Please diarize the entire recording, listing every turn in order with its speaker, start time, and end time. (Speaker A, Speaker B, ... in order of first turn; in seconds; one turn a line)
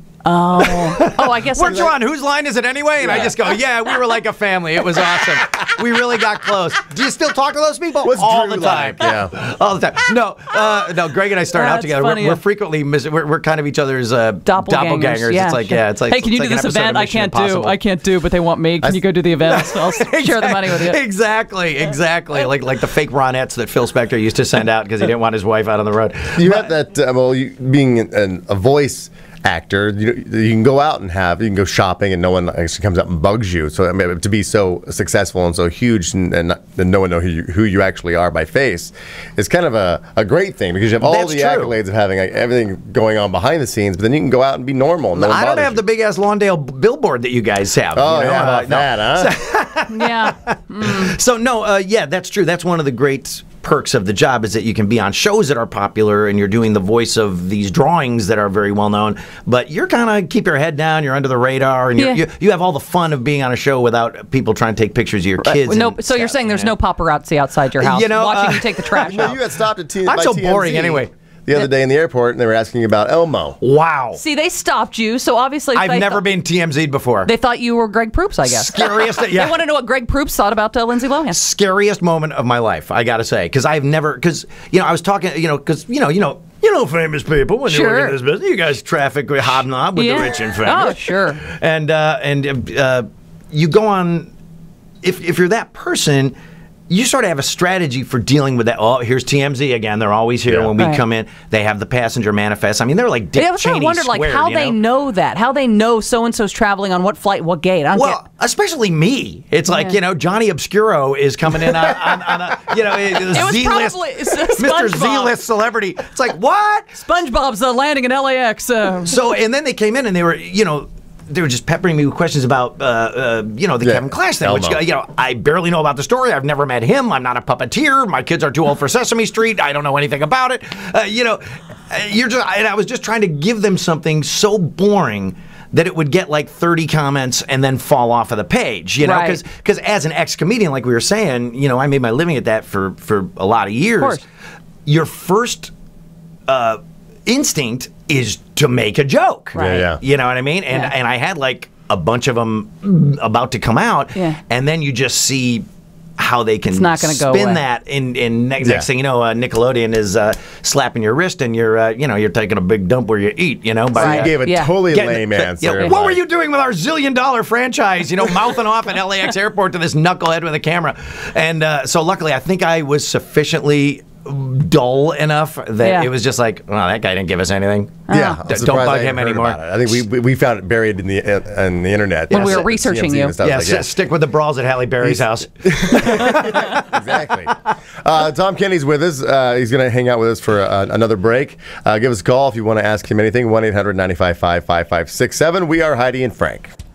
Speaker A: 0.2-1.9
Speaker B: 0.6-17.8
Speaker C: 1.6-1.9
Speaker C: 3.0-3.3
Speaker C: 8.0-9.3
Speaker A: 11.5-12.4
Speaker A: 14.4-21.0
Speaker B: 19.4-26.7
Speaker C: 26.4-45.8
Speaker B: 41.0-41.7
Speaker B: 45.1-66.7
Speaker C: 47.9-49.3
Speaker A: 49.9-51.1
Speaker A: 65.4-69.4
Speaker B: 67.8-69.4
Speaker C: 69.0-73.6
Speaker B: 70.0-71.1
Speaker B: 73.6-74.2
Speaker A: 74.1-76.2
Speaker B: 75.7-77.3
Speaker A: 77.2-81.4
Speaker B: 78.5-79.6
Speaker B: 81.3-94.3
Speaker A: 87.6-88.2
Speaker A: 90.0-91.4
Speaker B: 95.0-96.3
Speaker B: 96.9-104.8
Speaker A: 103.3-108.2
Speaker B: 107.9-117.0
Speaker A: 109.7-110.0
Speaker A: 113.1-115.3
Speaker A: 117.0-119.2
Speaker B: 119.0-144.2
Speaker C: 123.8-124.8
Speaker A: 139.0-139.4
Speaker B: 144.8-145.7
Speaker B: 146.5-155.7
Speaker A: 149.5-149.9
Speaker C: 149.6-150.0
Speaker A: 154.1-154.4
Speaker B: 156.2-164.3
Speaker A: 156.7-157.6
Speaker C: 158.6-158.9
Speaker A: 163.9-164.8
Speaker C: 163.9-166.2
Speaker B: 164.9-180.0
Speaker A: 175.8-176.1
Speaker A: 178.1-178.4
Speaker C: 178.1-183.9
Speaker B: 182.3-182.7
Speaker A: 182.3-183.3
Speaker B: 183.4-187.2
Speaker C: 185.0-196.7